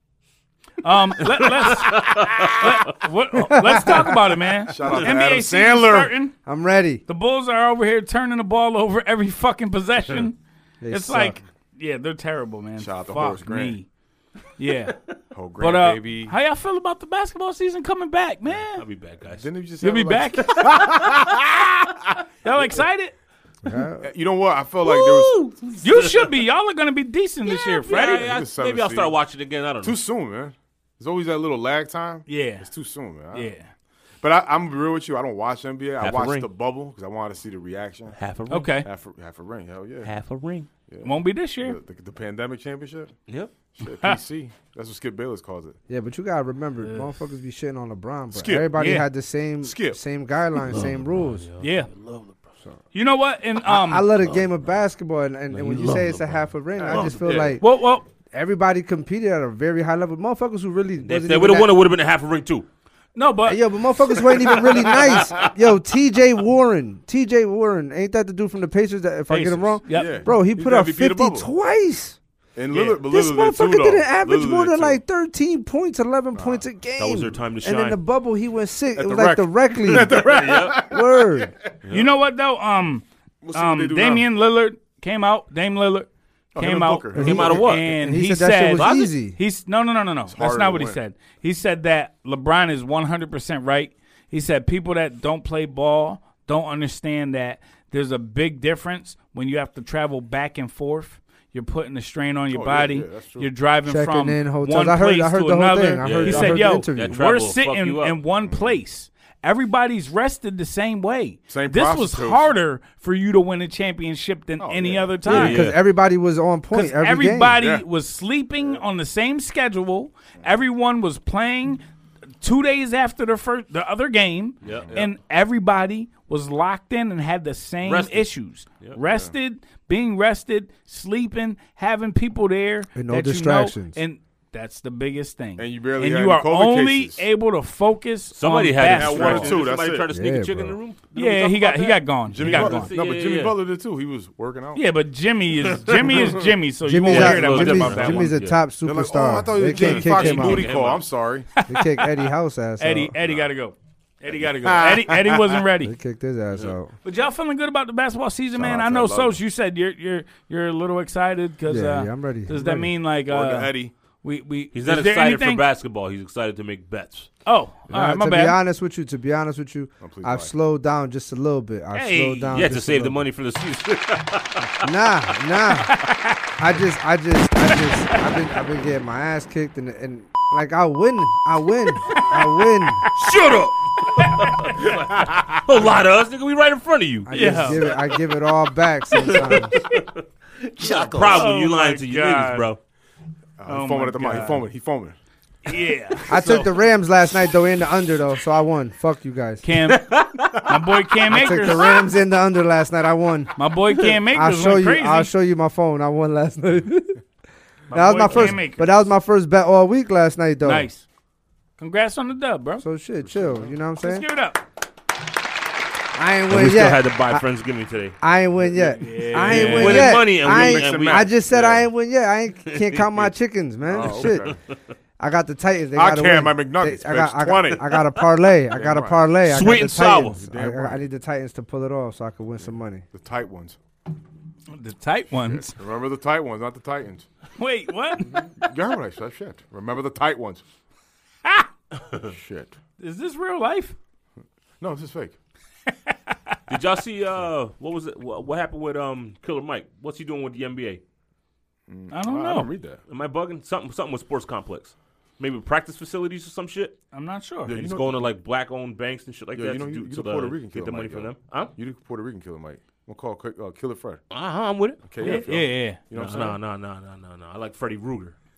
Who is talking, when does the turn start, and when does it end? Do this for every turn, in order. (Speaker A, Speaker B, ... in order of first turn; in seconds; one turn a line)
Speaker A: 0.8-6.3
Speaker B: 1.3-2.9
Speaker C: 3.5-4.2
Speaker D: 4.7-6.1
Speaker C: 6.5-7.0
Speaker A: 7.1-10.4
Speaker C: 10.8-11.4
Speaker A: 10.9-13.9
Speaker D: 12.8-13.8
Speaker A: 14.6-15.0
Speaker D: 15.3-16.3
Speaker A: 15.6-18.8
Speaker B: 18.7-19.5
Speaker D: 19.3-21.9
Speaker A: 19.8-20.6
Speaker B: 20.5-21.2
Speaker A: 22.4-23.1
Speaker C: 23.6-24.1
Speaker D: 24.0-25.5
Speaker B: 24.8-26.3
Speaker A: 25.8-28.3
Speaker B: 27.5-30.0
Speaker D: 27.9-29.1
Speaker D: 29.8-33.5
Speaker A: 32.3-32.7
Speaker A: 33.3-33.7
Speaker D: 34.2-38.2
Speaker B: 36.0-36.5
Speaker B: 38.2-38.7
Speaker A: 38.5-38.9
Speaker D: 38.8-40.1
Speaker B: 40.0-40.7
Speaker D: 40.9-43.1
Speaker A: 41.0-41.8
Speaker D: 43.7-45.8
Speaker C: 45.9-51.5
Speaker A: 46.8-47.1
Speaker D: 48.3-48.8
Speaker A: 48.7-49.1
Speaker D: 49.6-50.0
Speaker B: 50.7-52.5
Speaker A: 51.6-51.9
Speaker A: 52.9-54.1
Speaker C: 53.6-57.6
Speaker B: 54.2-54.5
Speaker B: 55.5-57.3
Speaker D: 56.8-57.6
Speaker A: 57.6-58.1
Speaker C: 58.3-61.7
Speaker B: 61.0-62.7
Speaker A: 63.2-63.6
Speaker C: 63.5-72.2
Speaker B: 64.6-65.5
Speaker A: 69.3-70.2
Speaker D: 69.9-71.5
Speaker D: 72.6-75.0
Speaker C: 73.0-81.5
Speaker D: 76.3-76.6
Speaker B: 77.0-78.0
Speaker D: 79.0-81.5
Speaker B: 79.9-80.9
Speaker A: 81.9-115.7
Speaker D: 83.4-84.3
Speaker D: 86.5-87.7
Speaker C: 87.1-89.4
Speaker B: 87.2-87.9
Speaker B: 88.8-89.1
Speaker D: 90.3-91.0
Speaker D: 102.5-103.5
Speaker C: 103.9-107.2
Speaker B: 106.0-108.2
Speaker D: 108.5-108.8
Speaker D: 111.5-112.5
Speaker D: 114.6-115.2
Speaker B: 115.3-115.8
Speaker C: 115.3-117.6
Speaker A: 116.7-121.8
Speaker D: 117.6-117.8
Speaker A: 122.4-139.6
Speaker B: 124.6-125.0
Speaker D: 124.7-125.1
Speaker B: 127.8-128.3
Speaker D: 129.0-129.3
Speaker C: 132.9-134.0
Speaker D: 135.6-137.2
Speaker B: 138.3-143.6
Speaker D: 138.8-140.1
Speaker C: 140.1-140.8
Speaker A: 141.2-142.9
Speaker D: 142.3-144.8
Speaker A: 144.8-148.3
Speaker B: 145.9-146.3
Speaker C: 146.8-150.7
Speaker B: 147.1-148.6
Speaker D: 148.8-151.5
Speaker B: 149.7-151.1
Speaker A: 151.6-151.9
Speaker C: 151.7-153.2
Speaker A: 152.8-155.9
Speaker D: 154.4-155.6
Speaker C: 155.8-156.9
Speaker A: 157.0-165.6
Speaker D: 158.6-159.4
Speaker C: 161.7-162.9
Speaker D: 163.3-163.9
Speaker B: 164.7-167.3
Speaker A: 167.5-168.6
Speaker C: 167.9-173.3
Speaker D: 170.0-170.5
Speaker A: 171.9-172.6
Speaker B: 172.5-174.9
Speaker C: 174.8-176.0
Speaker A: 175.9-176.4
Speaker C: 176.6-183.1
Speaker B: 183.1-188.0
Speaker A: 183.2-183.5
Speaker A: 184.1-185.0
Speaker C: 187.2-189.8
Speaker A: 187.3-187.9
Speaker B: 189.2-192.8
Speaker A: 189.7-190.0
Speaker D: 191.0-191.4
Speaker A: 191.3-192.7
Speaker D: 193.6-195.2
Speaker A: 193.7-194.7
Speaker A: 195.6-196.7
Speaker C: 196.3-199.6
Speaker A: 199.6-201.9
Speaker B: 199.9-201.7
Speaker C: 201.3-207.2
Speaker A: 203.6-205.3
Speaker A: 207.9-209.1
Speaker C: 207.9-210.9
Speaker A: 210.6-211.1
Speaker A: 211.8-212.8
Speaker C: 212.8-214.3
Speaker D: 213.2-213.7
Speaker A: 214.0-214.6
Speaker C: 216.2-217.4
Speaker B: 216.5-218.2
Speaker C: 218.2-224.5
Speaker A: 219.0-220.2
Speaker B: 219.3-221.5
Speaker D: 219.4-221.9
Speaker B: 222.7-223.3
Speaker D: 223.9-224.6
Speaker B: 224.0-224.8
Speaker C: 225.2-233.1
Speaker D: 225.9-228.0
Speaker D: 228.7-229.3
Speaker B: 229.4-230.4
Speaker D: 230.4-231.0
Speaker D: 233.1-233.8
Speaker A: 234.7-235.7
Speaker D: 235.5-237.3
Speaker A: 237.6-238.5
Speaker D: 238.3-240.6
Speaker D: 242.3-242.8
Speaker A: 243.0-244.0
Speaker D: 244.8-245.3
Speaker B: 246.7-251.0
Speaker D: 251.9-253.0
Speaker A: 252.1-252.7
Speaker B: 253.1-257.0
Speaker A: 257.1-257.8
Speaker D: 257.7-258.3
Speaker B: 257.7-261.7
Speaker D: 259.5-264.2
Speaker B: 264.3-265.4
Speaker D: 265.0-266.6
Speaker A: 265.2-266.0
Speaker B: 266.1-268.4